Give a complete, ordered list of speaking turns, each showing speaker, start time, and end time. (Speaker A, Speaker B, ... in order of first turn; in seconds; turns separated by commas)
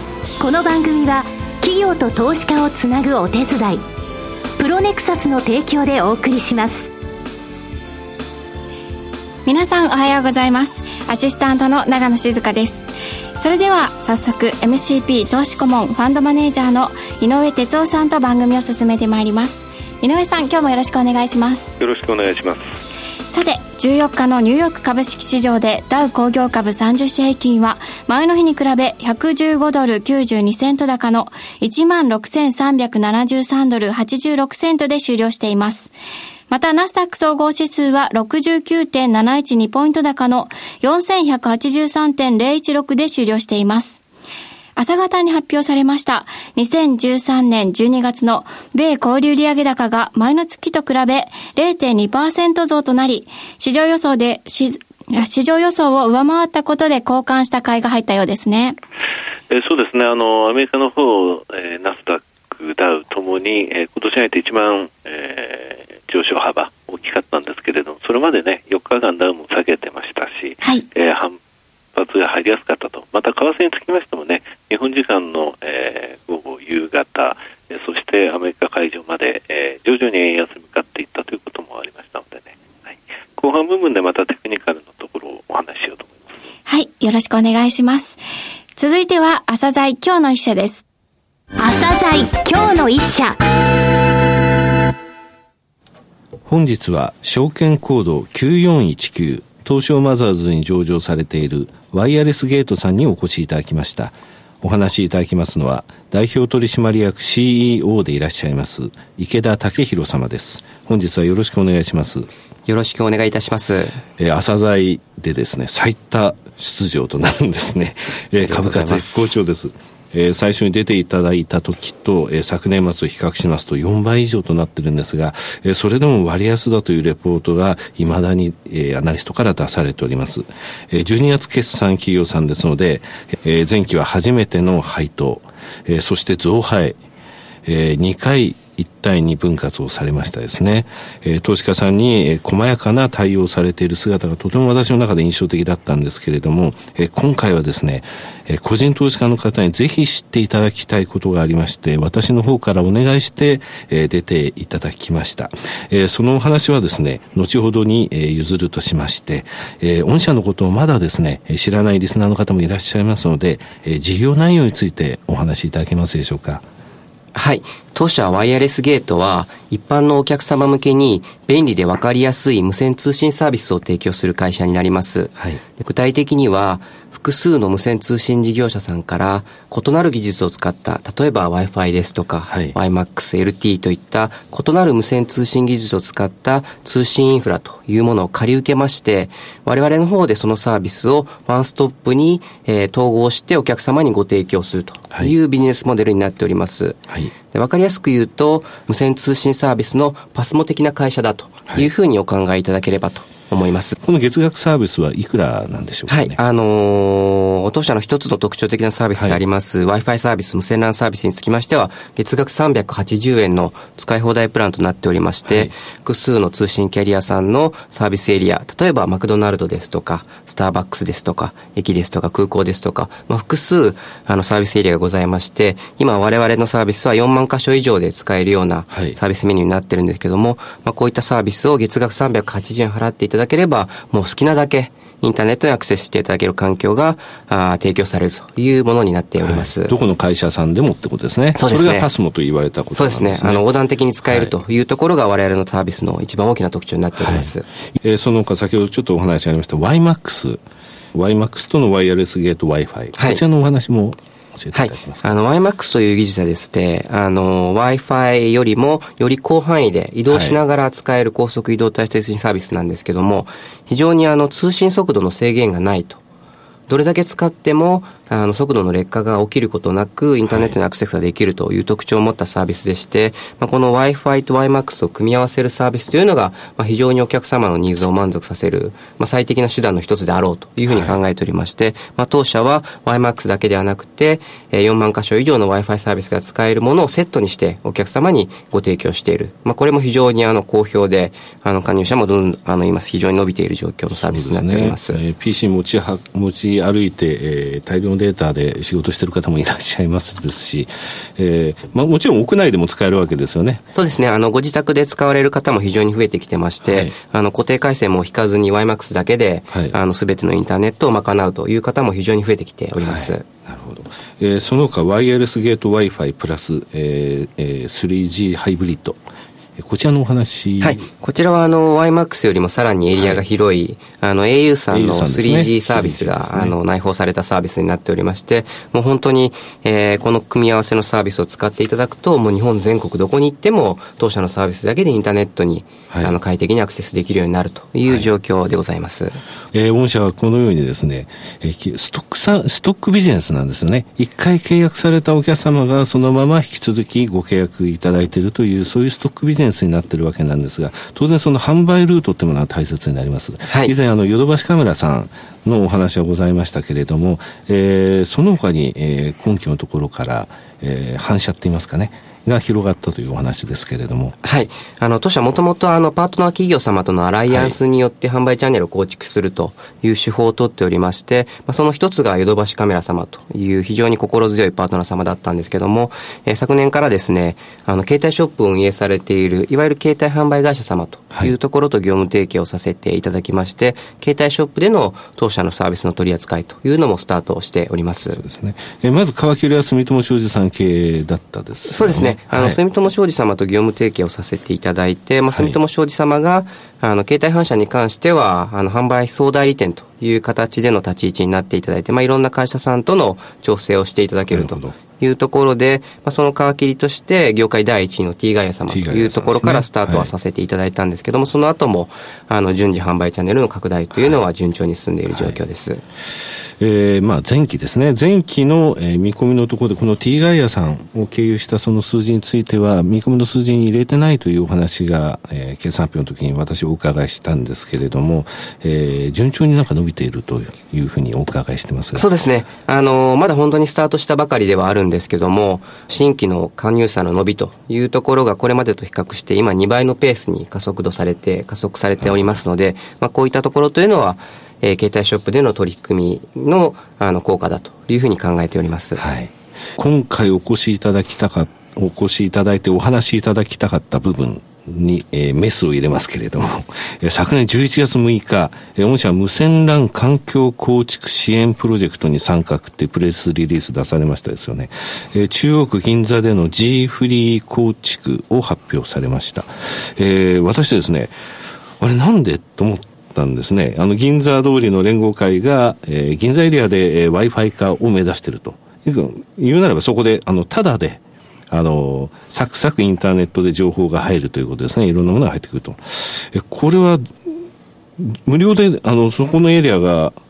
Speaker A: 0.4-3.8, Speaker A: 4.6-6.9, Speaker B: 9.4-21.7, Speaker C: 21.8-22.6, Speaker B: 23.3-35.9, Speaker B: 36.5-44.0, Speaker B: 44.8-58.8, Speaker C: 59.5-71.4, Speaker C: 71.9-86.2, Speaker B: 86.7-88.2, Speaker B: 88.8-90.8, Speaker A: 91.6-93.4, Speaker D: 96.5-112.3, Speaker E: 112.7-114.0, Speaker D: 114.2-137.0, Speaker E: 118.4-119.4, Speaker D: 137.7-166.6, Speaker E: 167.3-204.0, Speaker D: 182.5-182.8, Speaker D: 204.0-206.4, Speaker E: 206.1-240.0, Speaker D: 209.2-209.4, Speaker D: 215.5-215.7, Speaker D: 228.9-229.2, Speaker D: 239.4-243.7, Speaker E: 241.5-242.1, Speaker E: 242.9-247.7, Speaker D: 244.3-244.5, Speaker D: 247.2-250.6, Speaker D: 251.1-255.2, Speaker E: 253.1-253.4, Speaker E: 254.7-266.2, Speaker D: 260.3-260.6, Speaker E: 266.9-295.2, Speaker D: 270.5-270.8, Speaker D: 280.9-281.2, Speaker D: 294.2-303.8, Speaker E: 303.9-313.4, Speaker D: 306.8-307.1, Speaker D: 309.7-309.9, Speaker D: 313.0-319.2, Speaker D: 319.8-321.1, Speaker E: 320.8-339.4, Speaker D: 323.2-323.4, Speaker D: 324.9-326.8, Speaker D: 336.1-336.4, Speaker D: 339.7-364.4, Speaker E: 353.7-353.9, Speaker E: 364.4-388.4, Speaker D: 367.5-367.8, Speaker D: 388.4-392.8, Speaker E: 391.9-416.0, Speaker D: 404.5-404.9, Speaker D: 408.9-410.3, Speaker D: 414.1-414.4, Speaker D: 415.3-415.6, Speaker D: 416.8-432.3, Speaker E: 432.1-449.2, Speaker D: 442.2-442.4, Speaker D: 449.2-471.3, Speaker D: 472.0-487.3, Speaker D: 488.2-490.4